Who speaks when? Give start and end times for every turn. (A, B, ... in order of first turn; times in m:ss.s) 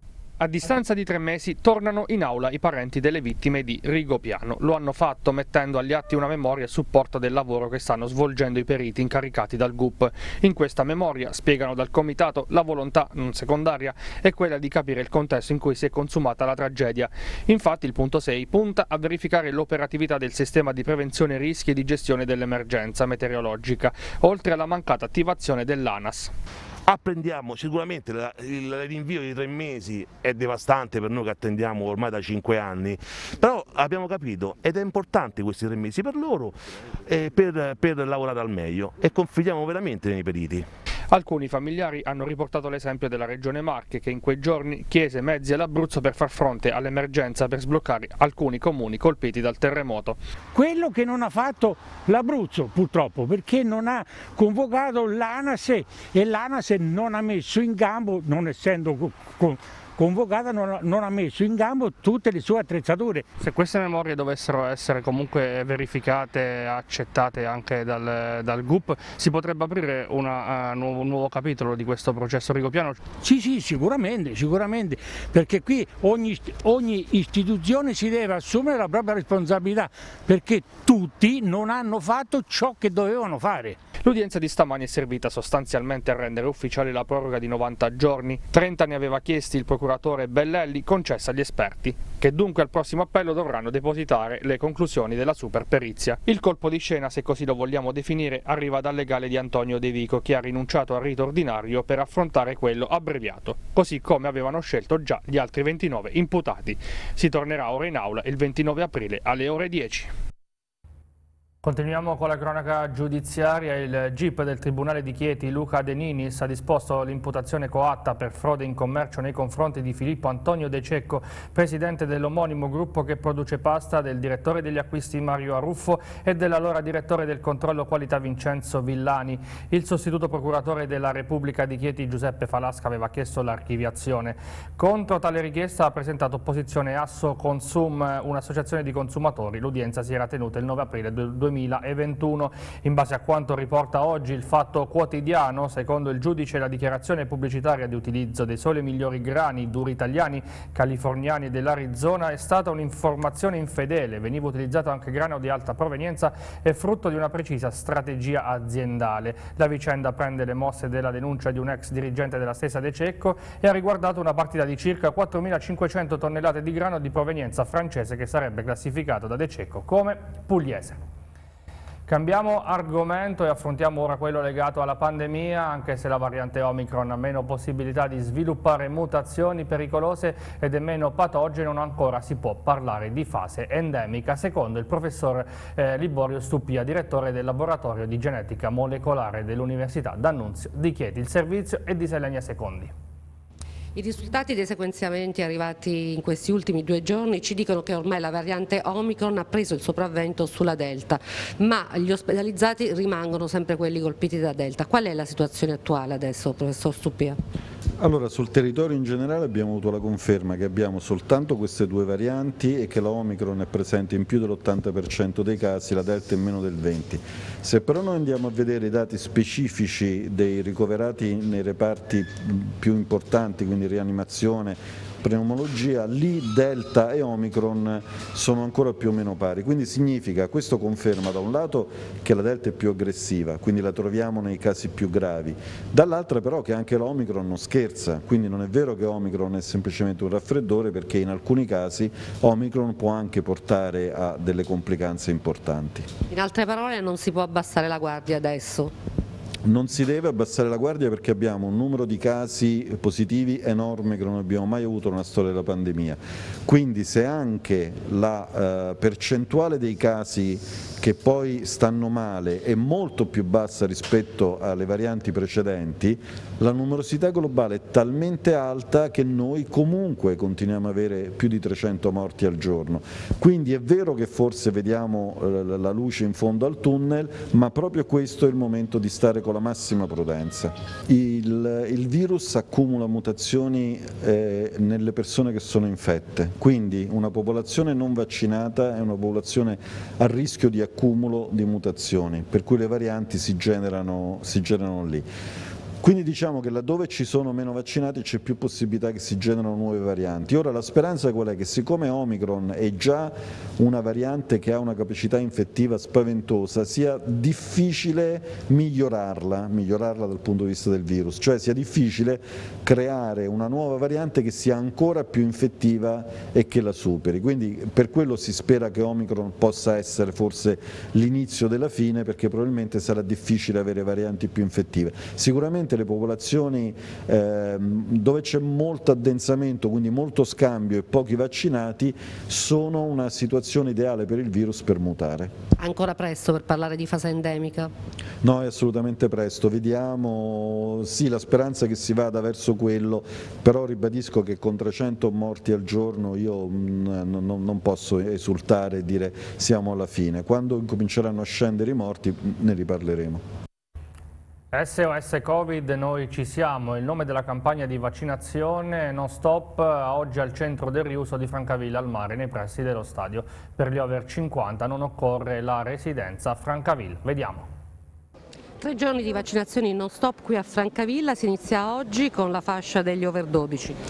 0:00.4-0:26.3 A
0:26.9-0:40.6 B
0:41.1-0:50.2 A
0:50.5-1:03.5 C
1:03.4-1:13.0 A
1:13.1-1:23.8 C
1:24.0-1:50.1 A
1:51.6-2:51.0 A
2:52.1-3:12.9 A
3:13.9-3:27.4 D
3:28.0-4:06.1 E
4:06.3-4:08.9 D
4:09.6-4:55.2 E
4:56.0-5:35.5 E
5:35.8-5:37.9 D
5:38.4-5:53.4 E
5:54.7-6:07.7 A
6:08.8-6:14.0 D